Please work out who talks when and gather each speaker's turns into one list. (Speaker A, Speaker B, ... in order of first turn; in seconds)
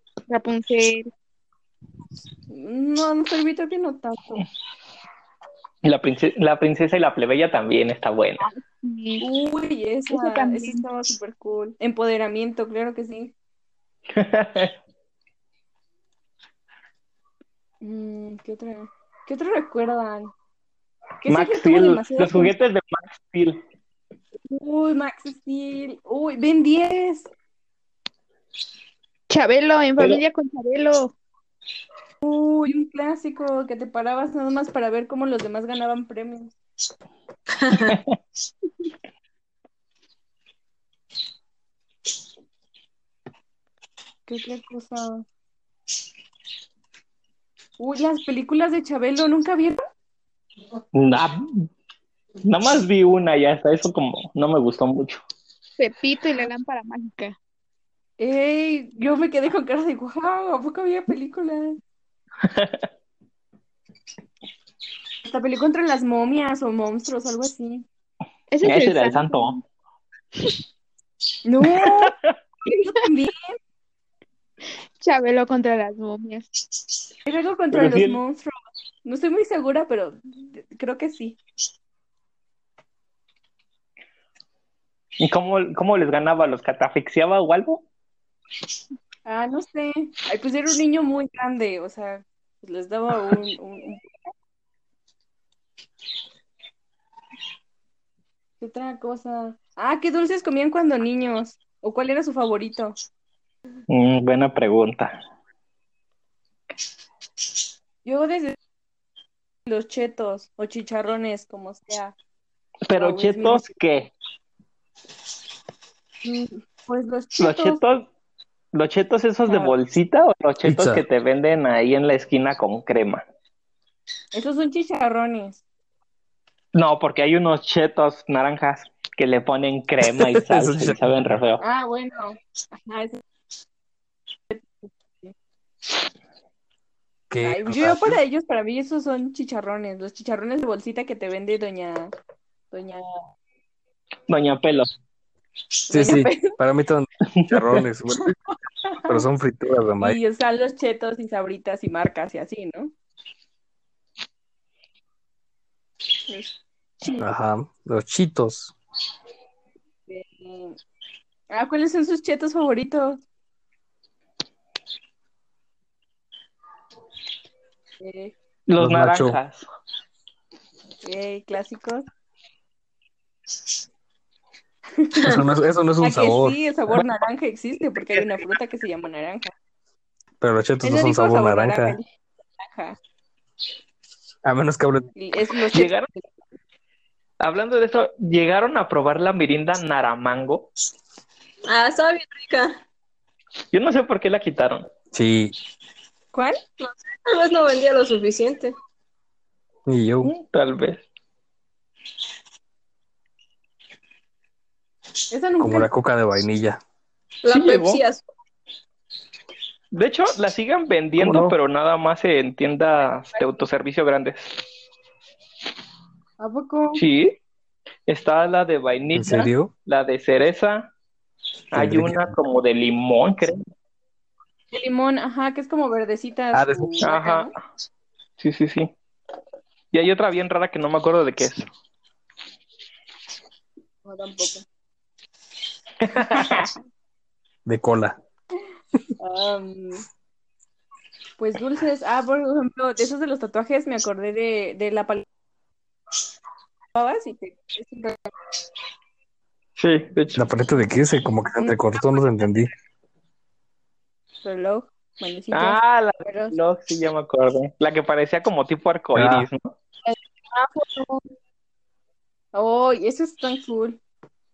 Speaker A: 0.3-1.1, 8.4-9.2, 10.1-11.0, 29.3-31.1, 55.8-57.4, 68.5-69.6, 75.0-76.5
Speaker B: 2.5-4.4, 9.2-13.3, 17.8-20.3, 21.2-22.5, 24.5-27.3, 32.2-36.5, 44.3-45.2, 47.8-49.8, 58.2-61.8, 65.2-67.8, 71.4-73.6, 77.2-81.4, 89.2-94.1, 98.6-103.0, 108.0-108.5, 109.6-112.1, 112.9-113.7, 116.2-117.8, 119.5-119.7, 124.3-125.6, 131.6-133.2, 134.5-135.3, 137.4-142.1, 142.7-143.2, 145.9-146.6, 150.0-152.9, 160.1-160.8, 161.5-163.2, 168.0-168.3, 171.0-172.1, 175.0-175.3, 176.0-179.5, 180.8-182.1, 182.6-183.0, 185.2-186.3, 196.3-196.6, 205.3-205.9, 216.4-217.0, 224.7-227.5, 234.0-234.6, 236.2-236.7, 239.2-240.0, 241.4-245.2, 246.9-248.3, 254.4-256.6, 260.0-261.3, 262.5-264.0
Speaker C: 5.8-8.5, 14.1-14.7, 21.2-23.6, 37.9-38.1, 50.9-51.7, 52.4-55.2, 62.4-62.8, 68.6-69.6, 71.8-72.3, 77.7-78.2, 85.2-87.8, 103.9-105.2, 112.9-114.1, 117.4-118.1, 118.7-123.2, 126.7-131.6, 144.3-144.9, 147.3-147.8, 168.7-169.6, 178.1-178.4, 185.7-186.1, 187.4-190.7, 193.7-194.9, 200.2-201.0, 207.5-208.0, 209.9-214.5, 217.0-217.4, 218.1-220.9, 221.7-223.7, 227.0-227.5, 228.4-228.9, 229.9-231.7, 236.1-236.7, 249.8-250.4, 255.5-259.7
Speaker D: 37.6-38.0, 191.7-192.7, 196.8-198.7, 207.4-208.2
Speaker E: 120.6-121.0, 130.0-131.1, 137.3-138.2, 145.9-148.4, 148.9-150.2, 157.2-158.7, 168.8-169.4, 175.2-176.6, 180.4-182.0, 184.4-185.1, 195.1-195.5, 199.8-200.3, 205.6-206.8, 211.2-211.5, 219.1-219.7, 221.8-222.3, 226.5-226.9, 237.7-238.2, 250.3-252.7, 259.1-259.5